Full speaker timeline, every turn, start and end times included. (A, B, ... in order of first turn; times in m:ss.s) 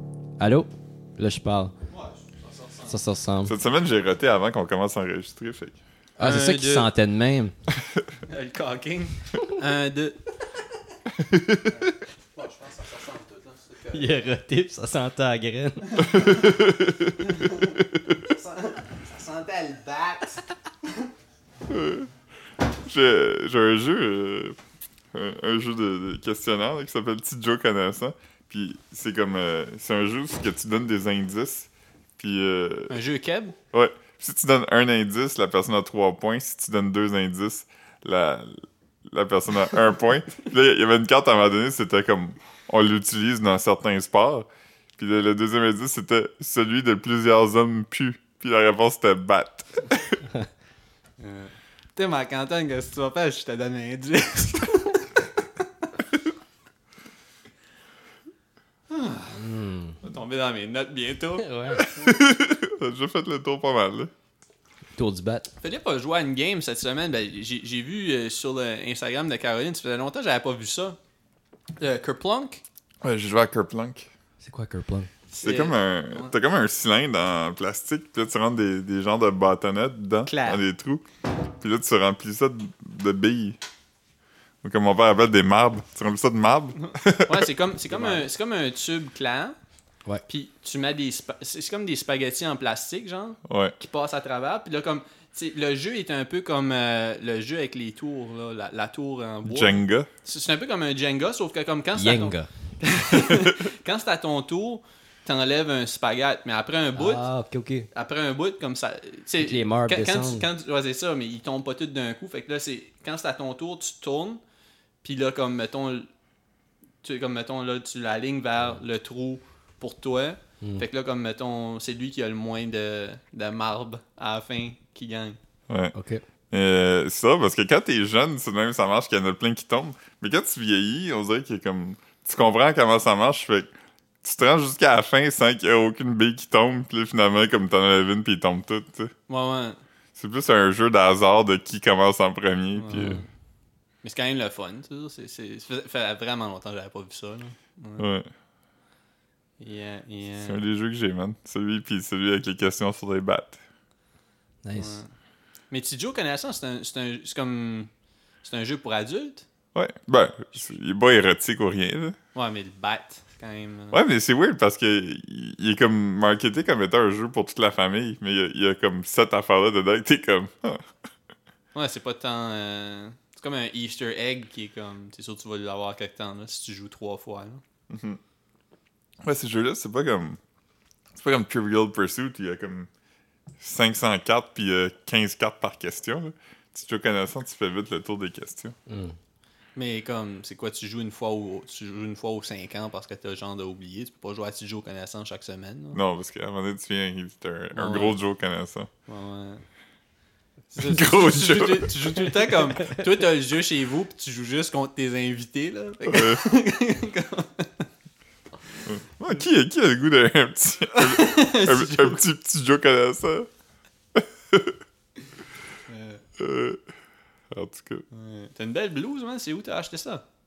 0:00.4-0:01.8 A
0:01.9-0:03.0 B
0:02.9-0:03.5 A
0:03.5-0:05.8 C
0:06.2-0:07.6 A
0:06.2-0:06.9 B
0:08.3-0:10.6 B
0:11.3-0:11.6 C
0:11.7-0:14.1 B
0:13.9-0:16.2 A
0:15.9-0:16.4 B
0:16.1-0:17.2 C
0:17.2-0:21.1 B
0:21.7-0:22.1 C
0:22.8-0:24.6 C
0:25.1-0:33.0 C
0:32.9-0:33.6 B
0:33.7-0:50.3 C
0:51.2-0:55.1 B
0:58.9-0:59.4 B
0:59.4-1:00.0 A
1:00.0-1:02.1 B
1:01.4-1:01.8 A
1:01.7-1:04.1 C
1:04.9-1:05.5 A
1:05.6-1:11.0 B
1:11.8-1:12.6 B
1:13.0-1:14.1 C
1:14.4-1:15.1 A
1:15.3-1:16.3 B
1:15.4-1:23.6 C
1:20.2-1:20.6 B
1:24.6-1:27.5 C
1:26.8-1:29.6 B
1:27.9-1:28.3 A
1:30.2-1:47.3 B
1:33.5-1:33.8 C
1:39.5-1:40.1 C
1:41.9-1:42.7 A
1:47.0-1:47.9 A
1:47.9-1:54.4 B
1:49.4-1:50.5 A
1:55.0-1:56.1 B
1:57.0-2:05.4 B
2:05.7-2:05.9 C
2:05.9-2:06.2 A
2:06.5-2:13.7 C
2:14.2-2:19.1 C
2:19.3-2:19.8 B
2:20.2-2:23.2 C
2:22.8-2:23.2 B
2:22.9-2:23.2 A
2:24.0-2:28.1 B
2:28.0-2:28.3 C
2:29.6-2:30.6 B
2:30.4-2:33.6 C
2:34.6-2:35.0 A
2:34.8-2:35.1 B
2:35.7-2:39.5 B
2:39.8-2:42.2 C
2:42.3-2:44.0 B
2:43.9-2:50.8 C
2:51.7-2:57.6 B
2:57.9-2:58.2 C
2:59.2-3:00.4 C
3:01.2-3:02.9 C
3:03.6-3:08.8 C
3:08.9-3:09.2 A
3:09.8-3:16.0 B
3:15.9-3:18.9 C
3:17.7-3:18.2 B
3:19.1-3:19.6 B
3:20.7-3:27.9 B
3:20.8-3:22.4 C
3:26.1-3:26.4 C
3:28.8-3:33.5 C
3:31.0-3:32.2 B
3:34.2-3:34.8 C
3:35.9-3:36.2 B
3:36.4-3:36.8 C
3:37.5-3:38.1 C
3:38.1-3:40.2 B